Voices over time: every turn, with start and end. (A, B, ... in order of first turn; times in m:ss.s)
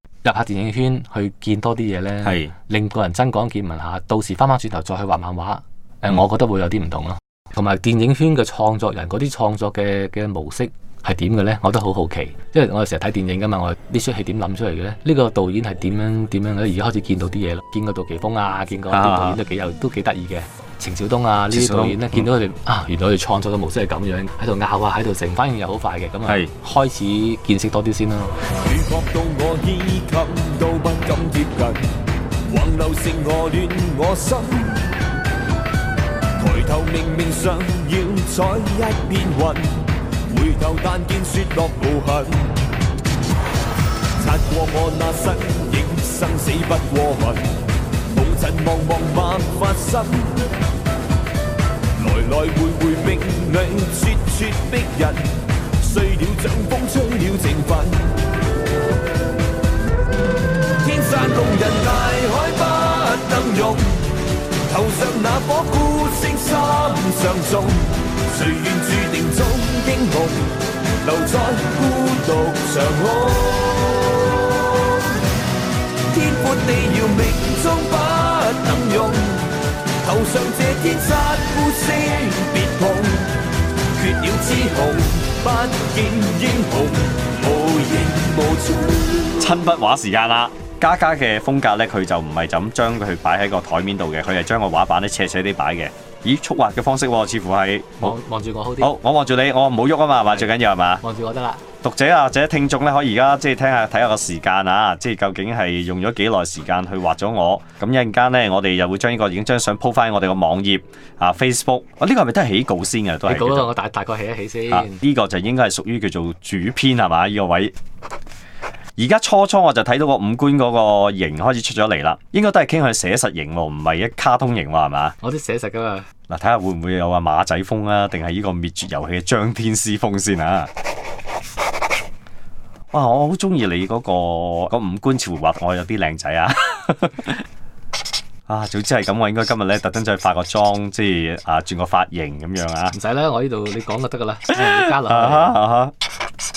0:00.2-0:28.3 A
0:02.2-0:02.5 B
0:18.9-0:19.4 B
0:21.5-0:22.2 B
0:28.6-0:31.9 C
0:32.5-0:34.8 C
0:36.4-0:42.6 C
0:44.2-0:47.5 C
0:48.1-0:50.4 C
0:52.0-0:58.2 C
1:00.8-1:04.1 C
1:04.7-1:15.1 C
1:16.1-1:23.3 C
1:23.9-1:29.4 C
1:29.4-1:38.2 B
1:38.0-1:38.9 A
1:38.8-1:41.0 B
1:41.0-1:41.6 A
1:41.8-1:53.7 B
1:53.3-1:55.0 A
1:54.7-1:57.7 B
1:59.0-2:05.2 B
2:05.2-2:06.1 A
2:06.3-2:10.7 B
2:12.9-2:17.4 B
2:18.5-2:23.0 B
2:22.9-2:25.6 A
2:24.6-2:25.9 B